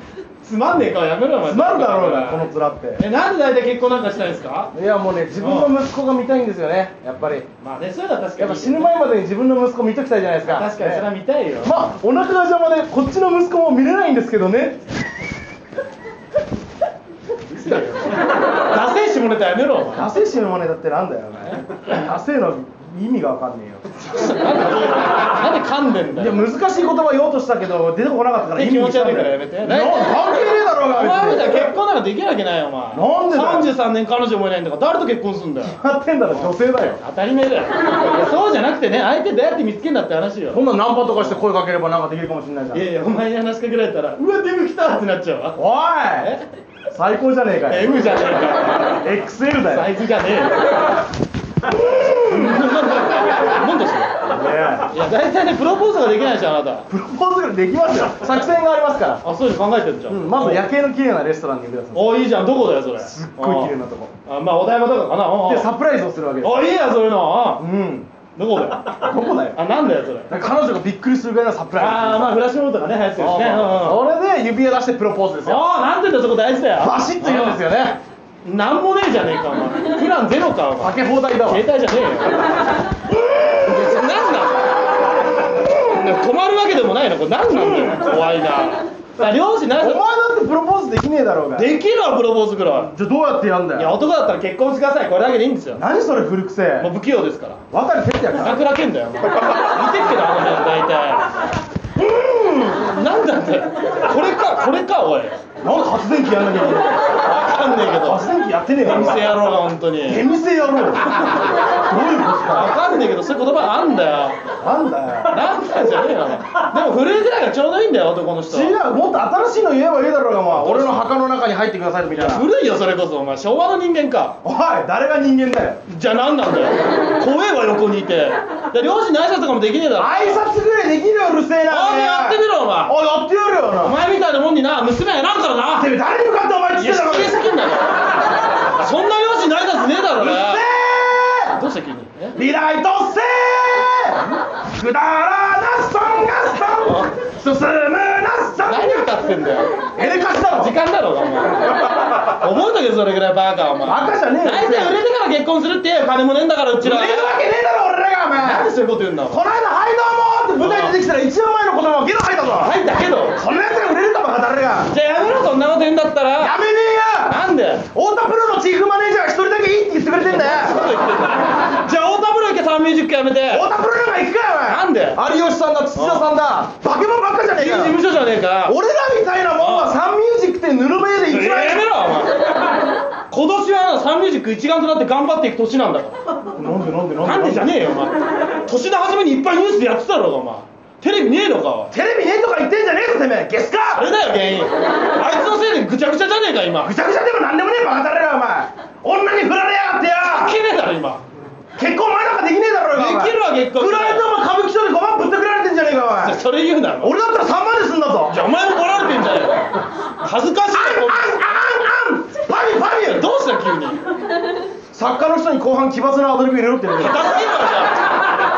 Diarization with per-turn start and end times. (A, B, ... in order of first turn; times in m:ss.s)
0:00.4-0:02.5 A
0:01.5-0:03.0 B
0:03.0-0:04.7 A
0:04.7-0:07.5 B
0:05.4-0:05.8 A
0:07.6-0:09.0 A
0:08.4-0:11.1 B
0:10.4-0:11.9 A
0:11.6-0:14.8 B
0:17.5-0:20.1 A
0:19.9-0:24.0 B
0:21.5-0:21.8 A
0:24.0-0:26.5 A
0:26.2-0:31.7 B
0:28.5-0:30.1 A
0:30.8-0:35.8 A
0:32.9-0:33.7 B
0:35.6-0:37.0 B
0:36.3-0:41.4 A
0:40.5-0:42.9 B
0:42.7-0:45.6 A
0:45.6-0:46.3 B
0:46.1-0:46.4 A
0:46.9-0:48.0 B
0:47.7-0:51.0 A
0:48.9-0:49.9 B
0:51.8-0:52.4 B
0:52.0-0:54.2 A
0:54.3-0:54.9 B
0:54.8-0:56.9 A
0:56.9-0:59.2 B
0:59.2-1:00.6 A
1:00.1-1:02.3 B
1:01.9-1:03.8 A
1:03.0-1:04.1 B
1:04.3-1:05.7 A
1:05.4-1:06.7 B
1:06.4-1:07.6 A
1:07.6-1:08.1 B
1:08.4-1:10.3 A
1:08.8-1:09.6 B
1:10.3-1:12.4 B
1:11.8-1:14.0 A
1:13.2-1:15.6 B
1:15.4-1:17.6 A
1:16.8-1:18.0 B
1:18.4-1:22.7 A
1:20.8-1:21.6 B
1:23.6-1:30.0 A
1:27.5-1:28.1 B
1:29.8-1:31.8 B
1:31.6-1:32.9 A
1:32.8-1:34.0 B
1:33.8-1:35.8 A
1:35.8-1:36.9 B
1:36.8-1:37.6 A
1:37.7-1:38.6 B
1:38.4-1:41.3 A
1:42.0-1:42.8 B
1:42.5-1:45.4 A
1:45.6-1:47.2 B
1:47.1-1:48.3 A
1:47.8-1:49.4 B
1:48.8-1:50.3 A
1:50.0-1:52.7 B
1:52.4-1:54.4 A
1:54.6-1:55.4 B
1:55.3-1:58.8 A
1:58.5-2:02.4 B
2:00.5-2:01.2 A
2:02.1-2:04.4 A
2:04.4-2:05.8 B
2:05.9-2:10.4 A
2:10.0-2:14.0 B
2:11.7-2:12.9 A
2:13.7-2:15.9 A
2:15.7-2:17.4 B
2:16.7-2:20.6 A
2:20.2-2:21.6 B
2:21.5-2:22.4 A
2:22.3-2:29.1 B
2:26.8-2:27.2 A
2:28.6-2:29.7 A
2:30.0-2:30.7 B
2:30.4-2:37.4 A
2:33.8-2:34.9 B
2:36.8-2:38.7 B
2:38.3-2:39.4 A
2:39.3-2:42.7 B
2:40.6-2:41.0 A
2:42.5-2:43.4 A
2:43.4-2:44.9 B
2:44.9-2:46.6 A
2:46.4-2:47.4 B
2:47.2-2:47.9 A
2:47.9-2:50.8 B
2:50.2-2:53.7 A
2:53.5-2:58.0 B
2:54.6-2:55.2 A
2:55.9-2:56.3 A
2:57.6-2:58.8 A
2:58.7-3:01.8 B
2:59.6-3:00.0 A
3:01.2-3:06.2 A
3:06.5-3:07.7 B
3:07.2-3:11.9 A
3:11.9-3:14.1 B
3:13.9-3:16.9 A
3:16.8-3:20.6 B
3:20.2-3:21.2 A
3:21.8-3:26.4 B
3:22.9-3:24.2 A
3:26.2-3:27.1 A
3:27.0-3:28.4 B
3:28.2-3:31.6 A
3:30.7-3:32.8 B
3:32.4-3:34.0 A
3:34.9-3:37.7 B
3:37.0-3:38.1 A